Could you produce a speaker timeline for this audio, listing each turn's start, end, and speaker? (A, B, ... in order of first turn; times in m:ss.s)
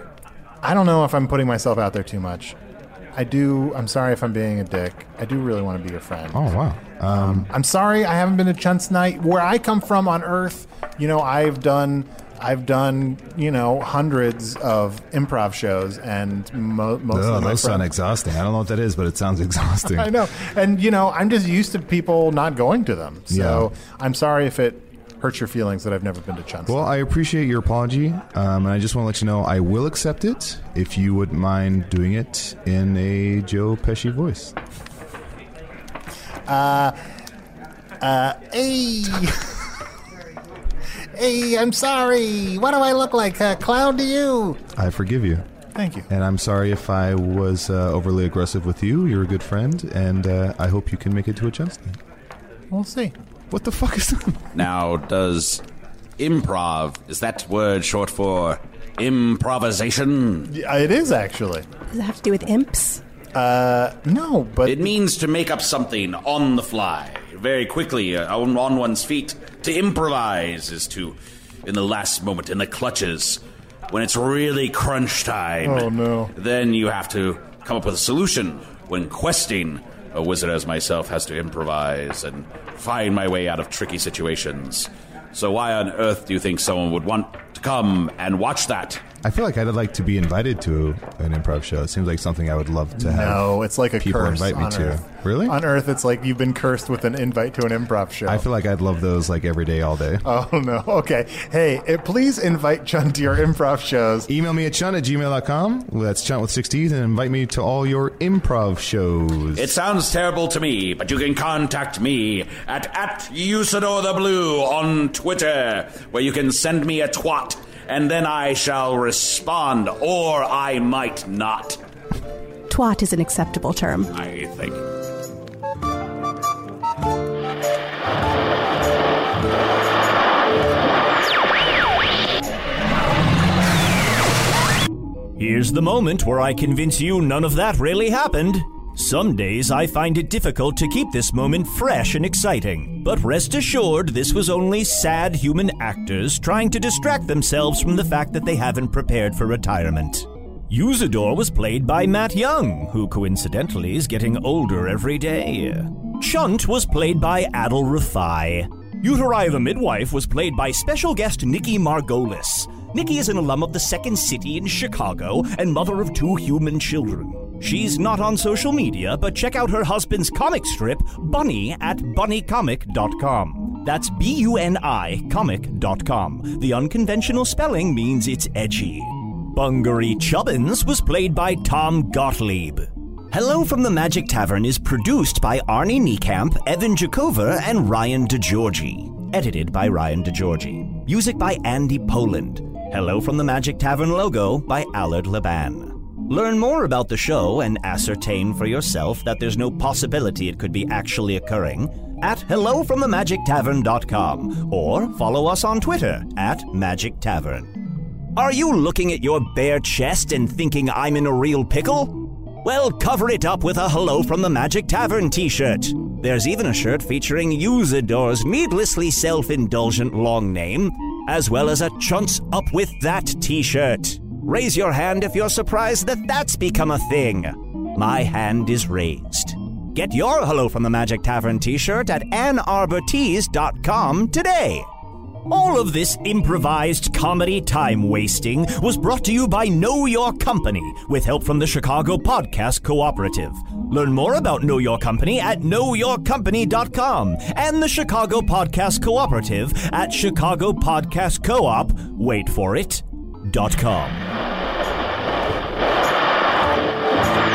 0:00.6-0:02.5 A
0:03.1-0:17.9 A
0:06.3-0:07.5 B
0:17.1-0:20.1 B
0:19.9-0:26.9 A
0:23.3-0:23.7 B
0:26.7-0:34.5 B
0:36.5-0:37.0 A
0:38.0-0:39.4 A
0:41.2-0:44.6 A
0:44.8-0:45.4 B
0:45.7-0:46.1 A
0:46.1-0:52.0 B
0:52.7-0:53.1 A
0:53.5-0:54.5 B
0:54.5-0:55.6 C
0:56.2-1:00.5 C
1:00.5-1:01.6 A
1:01.9-1:03.0 D
1:03.3-1:04.9 A
1:04.6-1:29.0 C
1:15.6-1:16.3 A
1:29.2-1:35.6 B
1:33.0-1:38.4 A
1:38.2-1:40.2 B
1:40.2-1:44.3 A
1:44.3-1:49.7 B
1:49.6-2:01.8 C
2:02.7-2:04.1 D
2:04.1-2:04.8 C
2:15.4-3:27.8 E
3:28.3-3:54.9 E
3:55.4-4:14.3 E